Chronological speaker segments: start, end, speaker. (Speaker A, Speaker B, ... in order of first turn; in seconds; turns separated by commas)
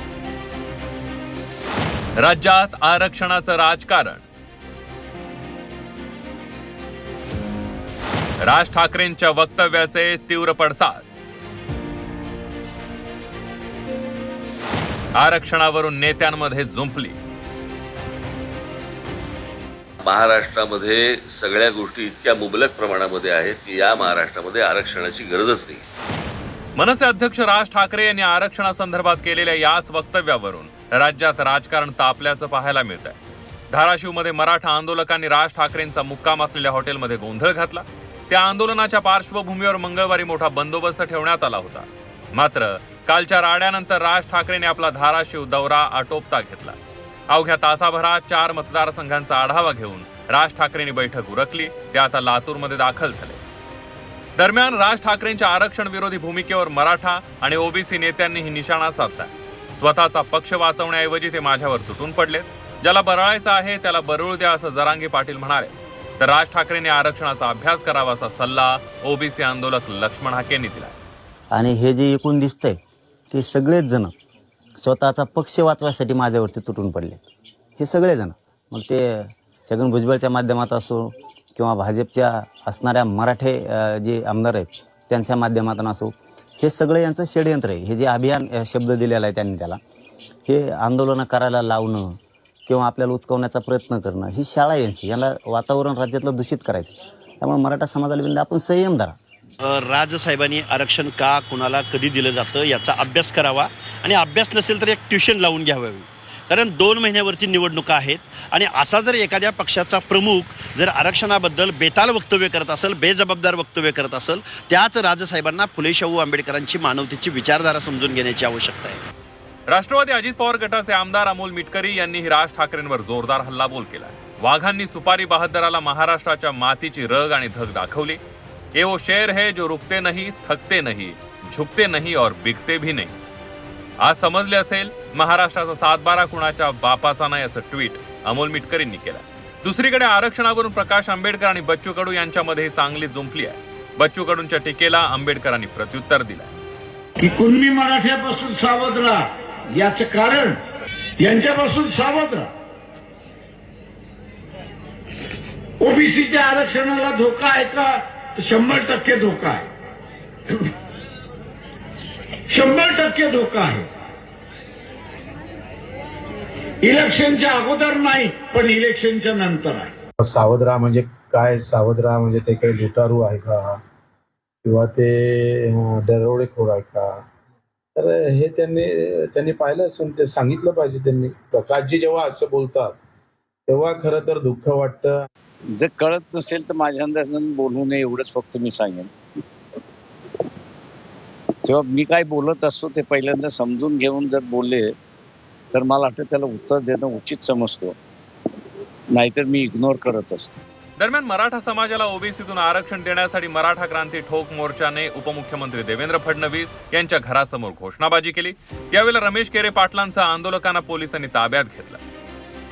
Speaker A: 2.2-4.2, Speaker A: 8.4-11.0, Speaker A: 15.2-17.2, Speaker B: 20.0-25.8, Speaker A: 26.8-33.2, Speaker A: 33.7-46.8, Speaker A: 47.3-53.4, Speaker A: 54.4-71.0, Speaker C: 71.5-72.8, Speaker C: 73.3-74.1, Speaker C: 74.8-77.2, Speaker C: 77.8-89.8, Speaker C: 90.5-99.2, Speaker D: 99.6-119.0, Speaker A: 119.7-128.2, Speaker A: 128.7-133.1, Speaker A: 134.0-146.5, Speaker E: 147.2-150.6, Speaker E: 151.2-152.5, Speaker E: 155.8-159.7, Speaker E: 162.5-163.9, Speaker E: 166.8-169.9, Speaker F: 170.2-173.8, Speaker F: 174.6-177.1, Speaker F: 177.9-183.0, Speaker F: 183.7-185.1, Speaker G: 185.8-189.1, Speaker G: 191.6-194.9, Speaker G: 195.7-198.0, Speaker G: 199.1-200.6, Speaker A: 201.0-212.0